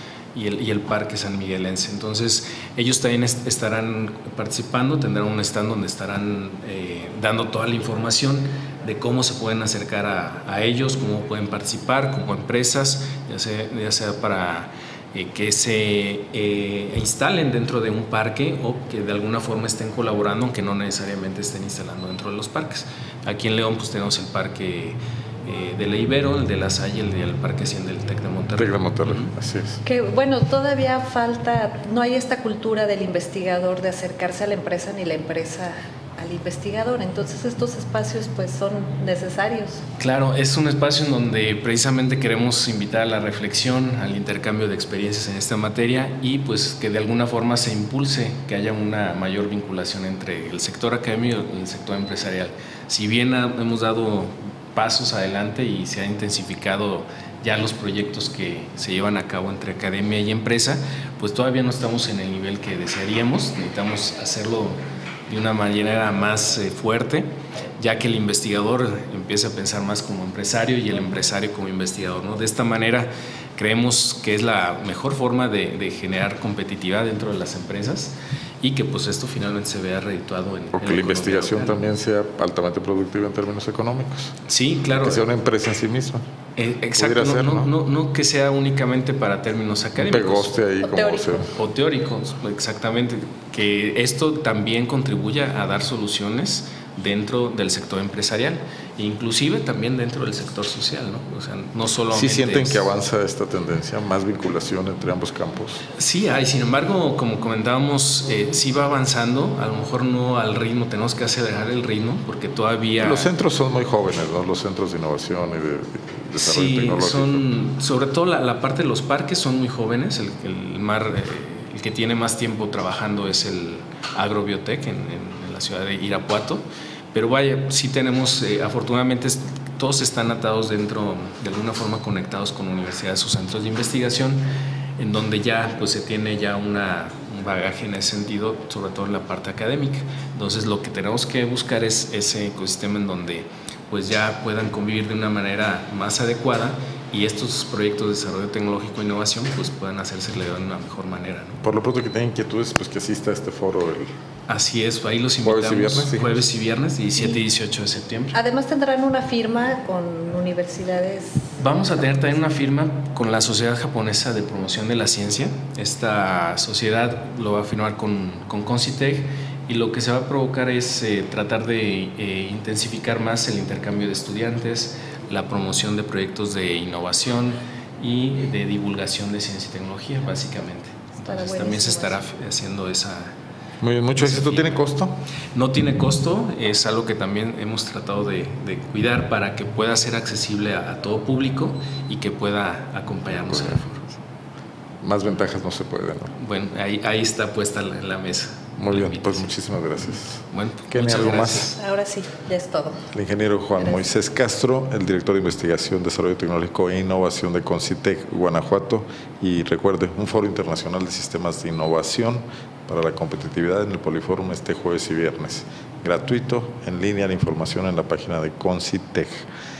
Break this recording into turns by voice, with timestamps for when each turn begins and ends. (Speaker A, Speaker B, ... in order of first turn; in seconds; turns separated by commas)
Speaker A: 0.3-29.3, Speaker B: 28.6-29.8, Speaker C: 29.8-39.8, Speaker A: 40.0-64.8, Speaker A: 65.3-67.3, Speaker A: 67.8-81.8, Speaker B: 80.7-84.3, Speaker A: 84.5-85.3, Speaker B: 84.9-86.2, Speaker A: 86.6-90.5, Speaker B: 87.0-87.7, Speaker B: 90.0-91.5, Speaker C: 90.8-91.3, Speaker A: 91.5-102.9, Speaker B: 102.1-105.8, Speaker A: 106.0-113.3, Speaker B: 113.0-117.4, Speaker A: 116.4-126.6, Speaker A: 127.1-134.4, Speaker A: 135.0-151.6, Speaker B: 151.6-154.1, Speaker A: 154.5-158.3, Speaker B: 155.4-156.4, Speaker C: 158.3-161.6, Speaker A: 161.6-183.3, Speaker C: 181.2-182.2, Speaker B: 183.8-185.1, Speaker A: 184.2-184.8, Speaker A: 185.5-194.1, Speaker B: 193.4-193.8, Speaker B: 195.0-196.3, Speaker A: 196.4-199.5, Speaker B: 198.8-201.7, Speaker A: 200.5-201.8, Speaker C: 201.7-203.1, Speaker B: 203.1-219.4, Speaker C: 203.8-204.0